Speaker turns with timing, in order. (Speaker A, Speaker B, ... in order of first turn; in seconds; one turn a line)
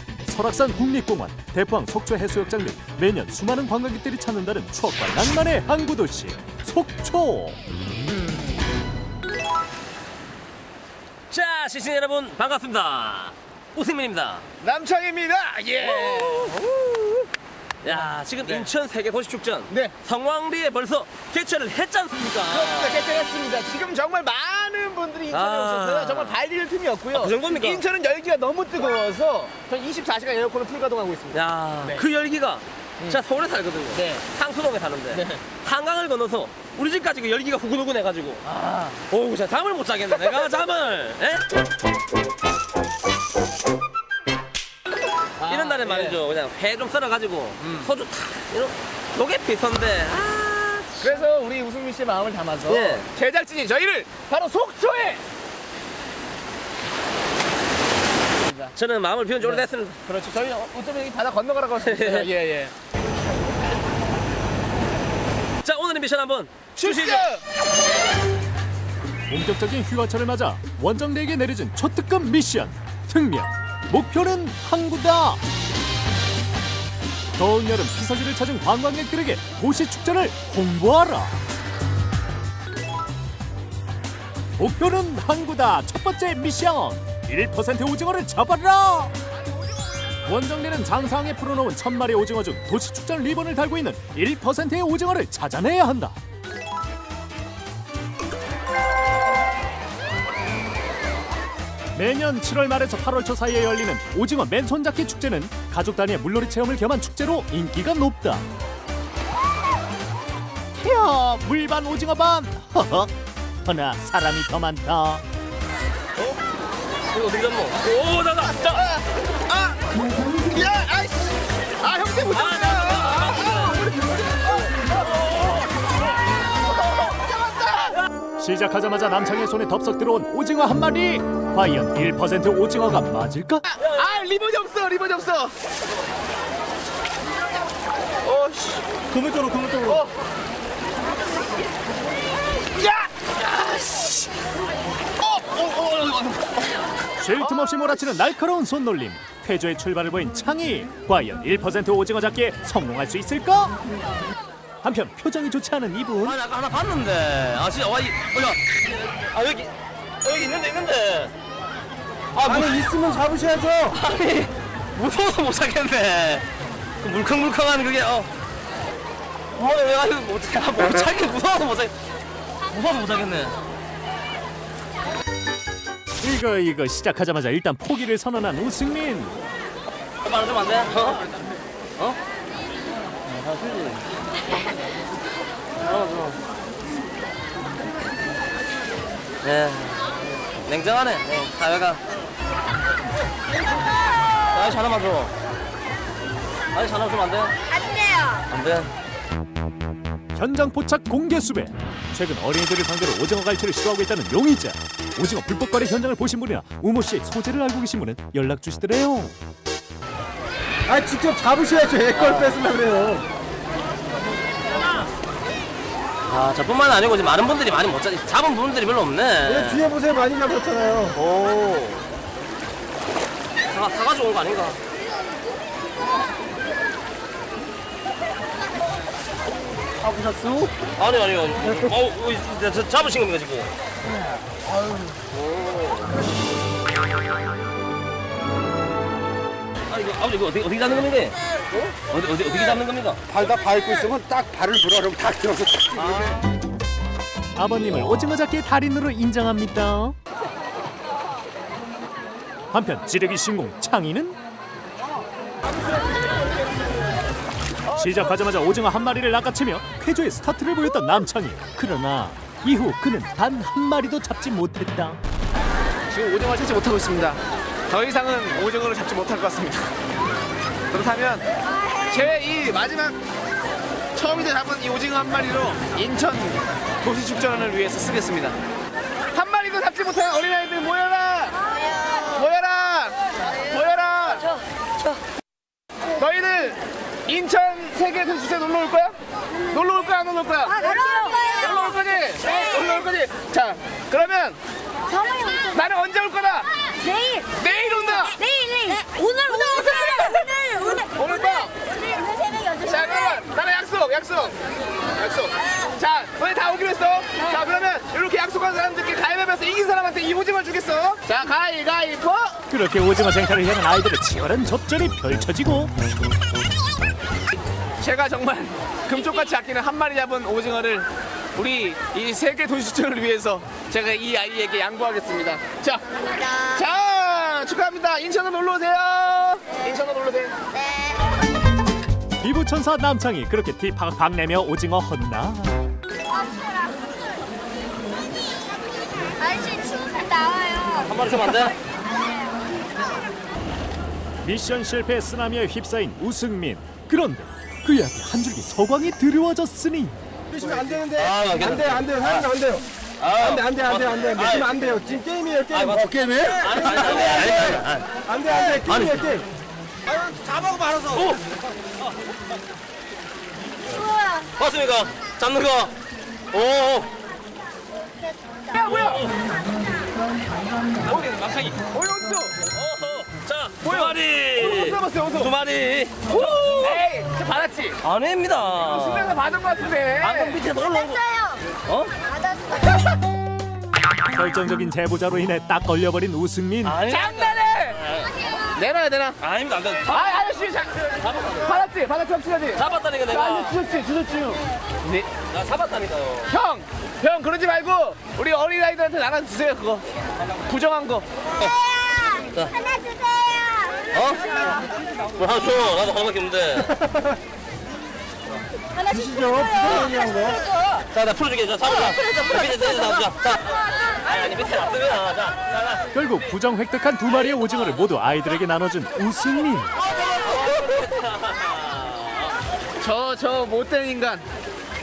Speaker A: 0.2-7.6
Speaker B: 11.3-14.4
Speaker C: 14.6-17.2
Speaker B: 15.8-16.6
Speaker B: 17.8-23.1
Speaker C: 17.9-18.7
Speaker C: 22.5-32.0
Speaker B: 25.3-26.4
Speaker B: 27.1-27.8
Speaker B: 31.3-41.4
Speaker C: 33.9-34.2
Speaker C: 38.5-38.9
Speaker B: 45.4-51.2
Speaker C: 45.4-46.2
Speaker C: 51.0-55.2
Speaker B: 52.6-53.1
Speaker B: 58.7-60.0
Speaker C: 59.4-62.7
Speaker B: 61.8-62.3
Speaker B: 65.6-67.3
Speaker C: 66.8-67.4
Speaker A: 69.3-75.4
Speaker A: 77.4-81.3
Speaker A: 84.6-89.1
Speaker A: 90.2-96.2
Speaker A: 101.9-108.4
Speaker A: 110.8-113.1
Speaker A: 113.6-115.2
Speaker B: 117.1-118.9
Speaker C: 119.5-121.2
Speaker C: 121.8-124.1
Speaker B: 122.2-123.8
Speaker C: 127.0-127.9
Speaker A: 128.4-133.7
Speaker C: 133.7-135.5
Speaker C: 138.2-138.8
Speaker D: 139.2-140.0
Speaker C: 139.8-140.1
Speaker C: 142.8-144.1
Speaker C: 145.2-146.3
Speaker A: 147.2-153.8
Speaker C: 147.4-148.0
Speaker A: 154.8-156.4
Speaker B: 156.2-158.6
Speaker B: 159.2-159.7
Speaker B: 160.2-161.3
Speaker B: 162.3-162.9
Speaker D: 162.4-164.0
Speaker B: 163.9-166.4
Speaker B: 167.0-168.3
Speaker B: 169.6-171.9
Speaker B: 172.7-173.6
Speaker A: 176.2-179.3
Speaker B: 180.2-181.3
Speaker B: 183.2-184.0
Speaker B: 185.8-186.4
Speaker B: 189.4-192.0
Speaker B: 194.5-195.3
Speaker B: 196.7-197.5
Speaker B: 198.5-198.9
Speaker A: 200.3-209.3
Speaker D: 210.9-213.2
Speaker B: 212.1-212.5
Speaker B: 216.3-219.8
Speaker D: 219.4-221.1
Speaker B: 221.1-222.0
Speaker B: 223.7-224.8
Speaker D: 230.3-230.6
Speaker B: 230.8-233.7
Speaker B: 235.3-236.1
Speaker B: 239.9-241.3
Speaker B: 242.1-243.2
Speaker D: 243.3-245.8
Speaker B: 245.9-246.4
Speaker A: 247.6-250.2
Speaker A: 252.7-254.4
Speaker A: 257.9-265.2
Speaker C: 266.1-267.4
Speaker C: 267.9-269.9
Speaker C: 270.9-271.4
Speaker C: 272.1-273.2
Speaker C: 274.1-278.5
Speaker C: 279.3-281.6
Speaker C: 282.2-284.5
Speaker C: 286.2-289.1
Speaker C: 289.7-294.6
Speaker E: 290.7-291.7
Speaker E: 295.1-295.7
Speaker C: 295.7-296.7
Speaker C: 297.4-298.4
Speaker E: 298.6-299.0
Speaker C: 299.4-301.7
Speaker C: 302.8-304.6
Speaker C: 305.1-312.6
Speaker A: 312.7-315.9
Speaker C: 318.0-326.0
Speaker C: 326.5-330.5
Speaker A: 332.4-335.7
Speaker E: 339.4-340.9
Speaker B: 340.9-341.8
Speaker A: 344.4-350.2
Speaker D: 350.5-359.4
Speaker B: 351.1-352.5
Speaker B: 353.2-358.2
Speaker B: 358.8-359.3
Speaker D: 360.4-361.2
Speaker B: 361.1-361.4
Speaker B: 363.9-365.9
Speaker B: 366.5-367.1
Speaker C: 368.7-369.2
Speaker B: 368.8-369.4
Speaker B: 371.0-371.8
Speaker C: 371.9-372.5
Speaker B: 372.7-377.0
Speaker C: 373.8-375.5
Speaker C: 376.3-378.0
Speaker B: 378.0-379.4
Speaker C: 378.8-380.6
Speaker B: 380.2-382.1
Speaker A: 384.3-387.0
Speaker B: 386.8-388.5
Speaker C: 387.1-388.0
Speaker C: 388.7-389.3
Speaker B: 389.4-390.4
Speaker C: 390.1-391.0
Speaker B: 391.2-391.8
Speaker C: 391.6-395.2
Speaker B: 392.7-393.8
Speaker B: 395.4-396.5
Speaker C: 396.5-400.0
Speaker C: 400.6-401.2
Speaker B: 404.1-404.8
Speaker B: 405.3-407.0
Speaker D: 409.1-410.6
Speaker B: 411.1-416.0
Speaker A: 416.1-419.9
Speaker B: 420.0-422.5
Speaker C: 423.0-424.4